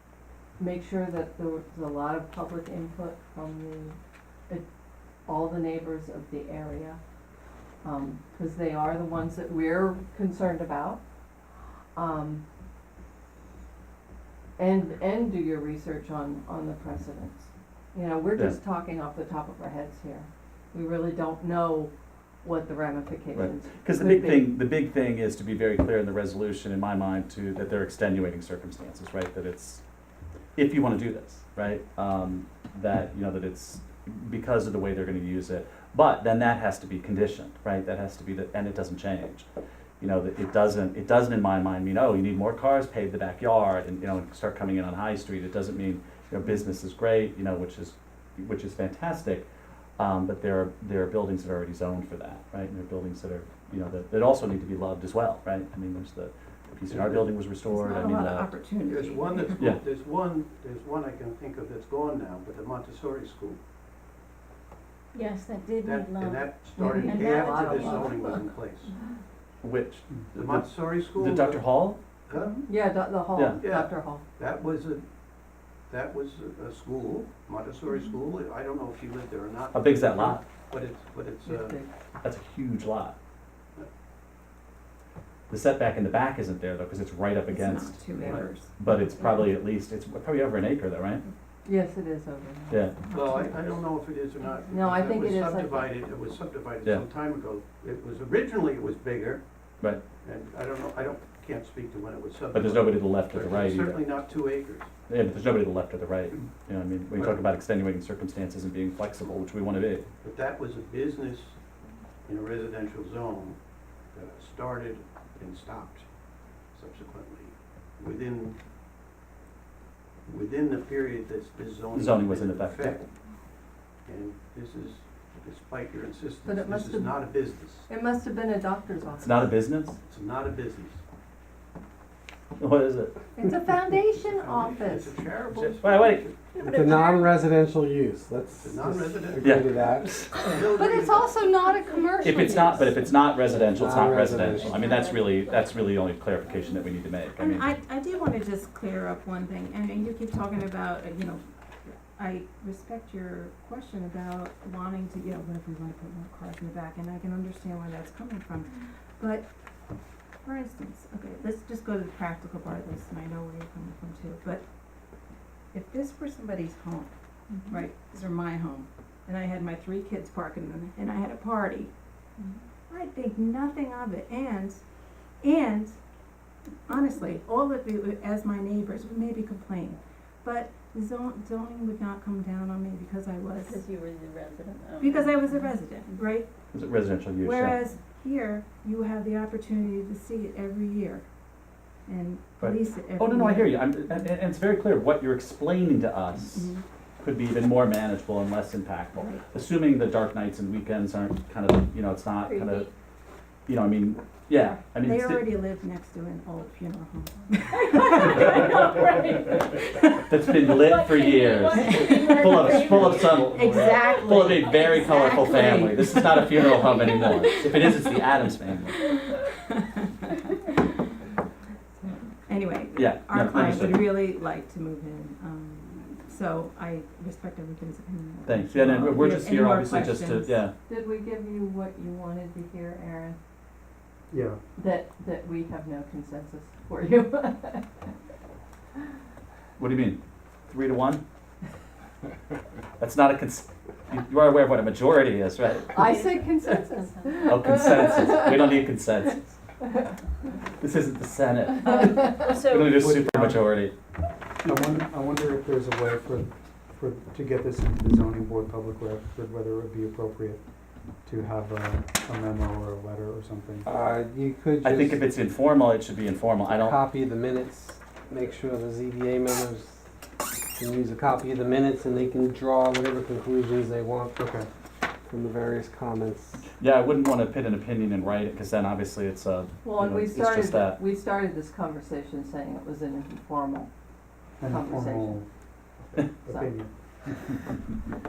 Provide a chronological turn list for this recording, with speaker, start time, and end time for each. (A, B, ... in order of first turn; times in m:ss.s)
0:00.6-0:04.0 A
0:05.3-0:07.0 A
0:07.8-0:11.0 A
0:12.0-0:12.4 A
0:14.6-0:21.9 A
0:22.4-0:24.5 A
0:23.3-0:29.8 B
0:30.6-0:39.5 B
0:40.0-0:49.5 B
0:50.0-0:58.6 B
0:56.9-0:57.4 C
0:57.6-0:59.7 D
0:58.9-1:03.6 C
0:59.6-0:59.8 B
1:05.1-1:08.6 E
1:05.8-1:08.9 C
1:06.8-1:08.2 A
1:09.6-1:12.0 B
1:10.3-1:11.7 C
1:12.3-1:12.6 C
1:12.7-1:14.2 A
1:13.4-1:13.6 B
1:13.6-1:15.0 C
1:15.9-1:21.8 C
1:19.7-1:20.4 B
1:21.4-1:21.9 A
1:22.2-1:23.2 B
1:25.5-1:31.2 B
1:27.5-1:28.7 D
1:28.2-1:28.5 C
1:31.6-1:32.9 A
1:32.7-1:33.0 B
1:33.1-1:39.4 C
1:33.1-1:33.5 D
1:34.7-1:35.9 A
1:40.2-1:44.9 C
1:42.5-1:44.1 B
1:45.1-1:50.1 B
1:50.2-1:51.6 C
1:52.3-1:53.6 C
1:54.1-1:56.1 C
1:56.7-1:58.6 C
2:00.3-2:03.0 C
2:01.9-2:03.0 B
2:04.1-2:07.9 C
2:06.4-2:07.2 A
2:07.9-2:09.5 A
2:09.2-2:10.0 B
2:10.0-2:11.0 C
2:12.6-2:13.2 B
2:13.4-2:15.2 A
2:14.2-2:16.4 C
2:15.5-2:16.3 B
2:16.6-2:17.4 E
2:16.6-2:20.3 F
2:18.6-2:19.6 C
2:19.4-2:19.7 B
2:20.4-2:22.9 A
2:20.4-2:21.3 C
2:22.2-2:27.7 B
2:23.8-2:24.8 F
2:24.5-2:25.8 E
2:27.4-2:31.4 D
2:32.1-2:39.5 D
2:40.4-2:44.6 D
2:45.7-2:47.1 D
2:47.7-2:51.9 D
2:52.9-2:54.8 D
2:55.4-2:56.0 D
2:56.9-3:03.8 D
3:03.6-3:06.3 E
3:05.0-3:06.5 D
3:06.7-3:07.8 B
3:07.4-3:11.2 D
3:12.1-3:13.9 D
3:12.6-3:22.9 B
3:16.5-3:16.8 D
3:22.4-3:22.9 E
3:23.7-3:25.6 B
3:25.0-3:29.0 D
3:27.7-3:30.0 E
3:30.2-3:39.1 B
3:30.7-3:35.8 E
3:33.3-3:34.1 G
3:33.5-3:36.6 D
3:39.7-3:40.1 D
3:42.5-3:50.6 D
3:42.9-3:44.2 B
3:48.5-3:50.7 B
3:50.9-3:53.4 A
3:54.3-3:54.6 G
3:54.8-3:57.9 A
3:59.8-4:01.2 B
4:03.0-4:06.1 B
4:05.9-4:08.6 A
4:06.0-4:07.5 E
4:07.5-4:09.6 B
4:10.8-4:13.9 B
4:11.9-4:12.9 E
4:12.8-4:13.7 G
4:14.6-4:20.6 G
4:21.2-4:23.9 G
4:23.8-4:25.2 F
4:24.8-4:27.0 B
4:26.7-4:30.1 F
4:30.7-4:34.4 F
4:34.4-4:34.7 G
4:35.2-4:36.7 F
4:36.8-4:41.0 B
4:39.8-4:43.9 A
4:44.6-4:45.5 G
4:44.6-4:45.4 A
4:46.1-4:46.9 G